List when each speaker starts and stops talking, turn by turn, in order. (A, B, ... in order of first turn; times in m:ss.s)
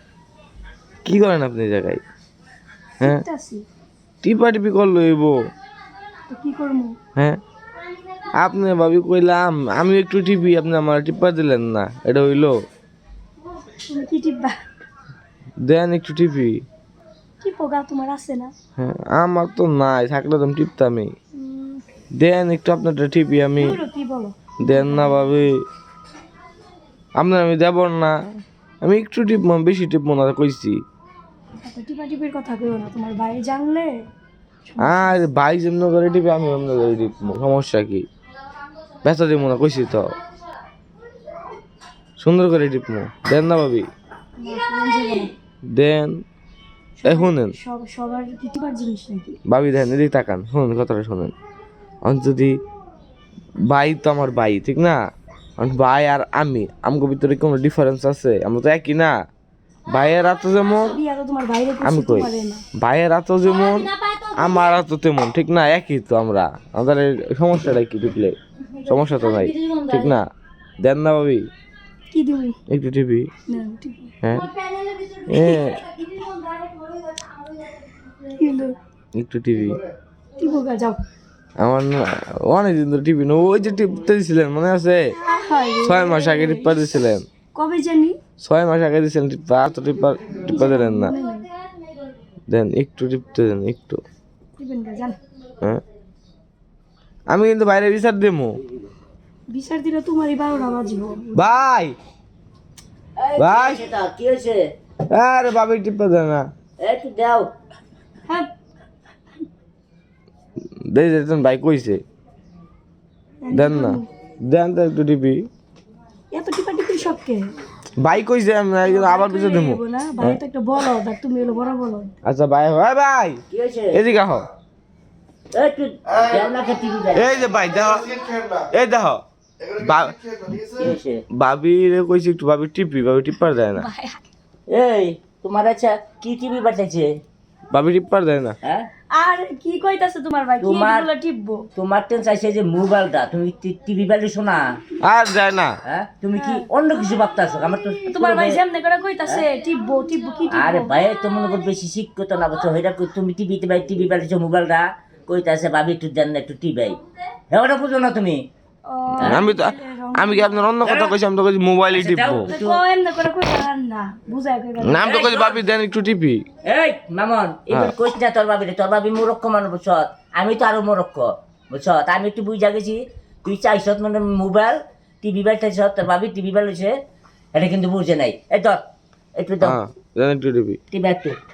0:01.0-0:02.0 A
0:03.0-0:03.6 B
0:04.2-0:05.4 A
0:06.3-0:06.9 B
0:08.4-0:12.6 A
0:13.9-0:14.6 B
0:15.6-0:16.6 A
0:17.4-0:18.5 B
0:18.8-0:21.1 A
0:21.3-0:21.8 B
0:22.2-0:23.8 A
0:23.6-0:25.3 B
0:24.6-0:25.6 A
0:27.2-0:28.2 A
0:28.8-0:30.8 A
0:31.6-0:34.1 B
0:34.7-0:35.1 B
0:34.8-0:38.0 A
0:39.0-0:40.2 A
0:42.2-0:43.9 A
0:44.4-0:45.3 B
0:45.7-0:46.2 A
0:47.0-0:49.4 B
0:47.0-0:47.6 A
0:49.5-0:51.3 A
0:52.0-0:52.6 A
0:53.7-0:55.0 A
0:55.6-0:59.1 A
0:59.9-1:01.0 A
1:00.8-1:02.6 B
1:01.8-1:10.3 A
1:10.8-1:11.5 A
1:12.1-1:12.5 B
1:12.7-1:13.3 A
1:13.5-1:14.1 B
1:14.2-1:14.5 A
1:15.3-1:15.8 A
1:15.3-1:15.7 B
1:18.2-1:18.8 B
1:19.1-1:19.8 A
1:20.4-1:21.0 B
1:21.6-1:25.1 A
1:25.2-1:26.8 B
1:25.8-1:27.3 A
1:27.5-1:28.2 B
1:28.4-1:31.1 A
1:30.5-1:31.5 B
1:32.5-1:34.0 A
1:34.6-1:35.2 B
1:37.3-1:38.6 A
1:39.5-1:41.6 B
1:41.3-1:41.9 A
1:43.2-1:44.7 C
1:43.4-1:43.8 A
1:45.1-1:46.5 A
1:46.8-1:47.5 C
1:50.8-1:52.0 A
1:53.4-1:54.0 B
1:53.5-1:55.5 A
1:56.3-1:57.5 B
1:58.0-2:00.4 A
1:58.8-2:02.1 B
2:02.2-2:03.4 A
2:03.5-2:04.0 C
2:03.9-2:04.5 A
2:05.5-2:07.5 C
2:07.1-2:10.6 A
2:10.8-2:11.2 C
2:11.3-2:13.9 A
2:13.8-2:14.2 B
2:14.7-2:17.1 C
2:17.7-2:18.6 A
2:18.6-2:18.9 C
2:19.1-2:21.7 B
2:20.6-2:21.1 C
2:21.7-2:24.8 C
2:25.0-2:25.8 A
2:25.8-2:28.6 C
2:26.3-2:26.7 B
2:27.8-2:31.0 B
2:30.5-2:38.5 C
2:38.9-2:40.7 B
2:39.2-2:42.5 A
2:40.8-2:41.2 C
2:42.0-2:42.8 C
2:42.5-2:45.2 B
2:44.8-2:46.4 A
2:45.0-2:45.6 C
2:46.6-2:56.9 C
2:57.5-2:58.8 C
2:59.4-2:59.8 C
2:59.6-3:00.8 A
3:00.9-3:01.4 C